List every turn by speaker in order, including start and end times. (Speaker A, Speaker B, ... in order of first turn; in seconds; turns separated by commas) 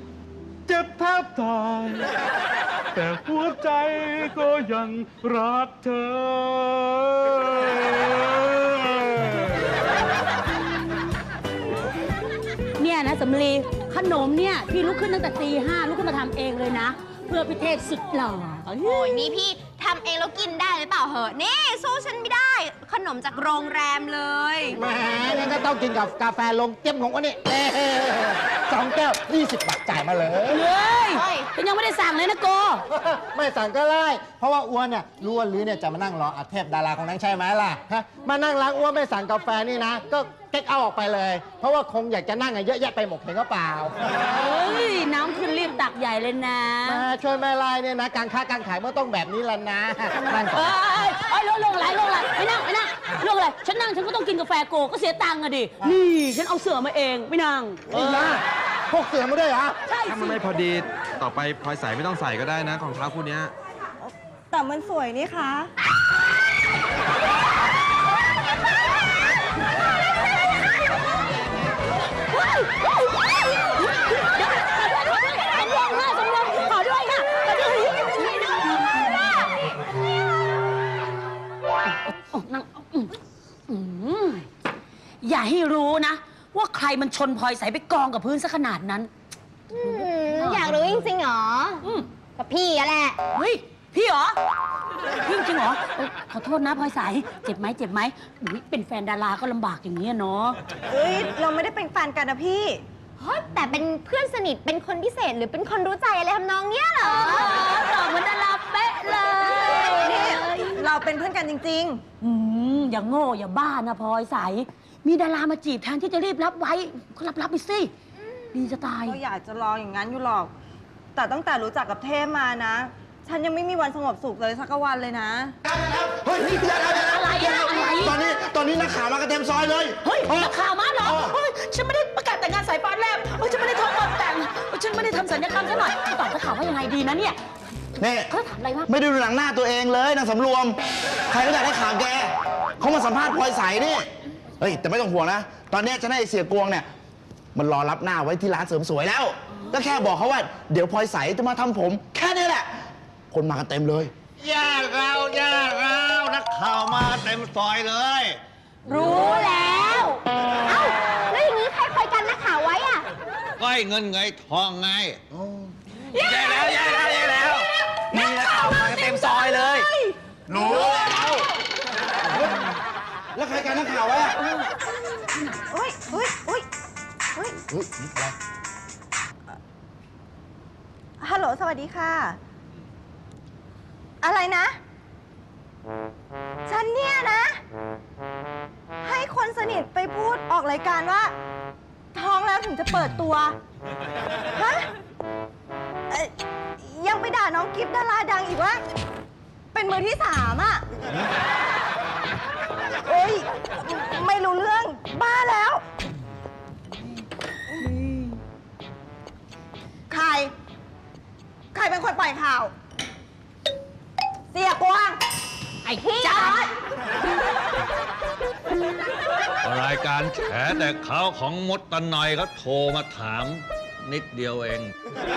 Speaker A: 0.7-2.1, Speaker A: 2.9-9.4, Speaker B: 12.8-19.3, Speaker C: 18.8-24.8, Speaker D: 24.7-30.6, Speaker B: 30.5-32.8, Speaker C: 31.1-31.5, Speaker D: 32.9-44.0, Speaker B: 44.2-47.1, Speaker D: 46.9-51.0, Speaker B: 50.2-58.3, Speaker D: 57.9-59.8, Speaker B: 59.9-60.4, Speaker E: 60.1-63.5, Speaker F: 64.0-65.7, Speaker B: 72.4-79.1, Speaker B: 81.8-83.1, Speaker B: 83.7-84.5, Speaker B: 85.2-89.1, Speaker C: 89.7-91.8, Speaker B: 89.8-90.8, Speaker C: 92.4-93.2, Speaker B: 93.3-94.4, Speaker B: 95.2-100.6, Speaker F: 100.9-102.8, Speaker C: 103.2-107.6, Speaker B: 107.0-110.9, Speaker F: 109.5-112.0, Speaker C: 109.9-110.2, Speaker B: 112.2-117.9, Speaker B: 118.5-119.2, Speaker F: 119.0-120.5, Speaker F: 121.2-125.5, Speaker G: 125.7-131.3, Speaker B: 126.4-128.2, Speaker B: 130.0-137.4, Speaker G: 138.0-138.3, Speaker B: 138.3-138.9, Speaker G: 138.9-140.8, Speaker G: 141.3-146.9, Speaker G: 147.6-152.7, Speaker G: 153.3-154.1, Speaker H: 154.8-156.0, Speaker C: 158.9-163.1, Speaker H: 163.6-165.2, Speaker H: 166.2-167.5, Speaker C: 166.3-167.4, Speaker F: 168.1-168.7, Speaker G: 168.2-168.6, Speaker F: 169.4-170.1, Speaker G: 170.5-171.4, Speaker G: 172.3-172.6, Speaker G: 173.3-174.4, Speaker F: 175.7-176.7, Speaker G: 177.7-178.2, Speaker F: 181.2-182.4, Speaker F: 184.2-184.8, Speaker F: 186.7-187.6, Speaker F: 189.0-191.3, Speaker F: 192.1-193.6, Speaker F: 194.6-194.9, Speaker F: 196.1-198.8, Speaker F: 199.7-200.8, Speaker F: 203.1-205.8, Speaker F: 210.1-210.5, Speaker F: 211.7-212.7, Speaker F: 214.5-215.2, Speaker B: 215.8-216.6, Speaker C: 216.0-216.7, Speaker H: 219.6-224.9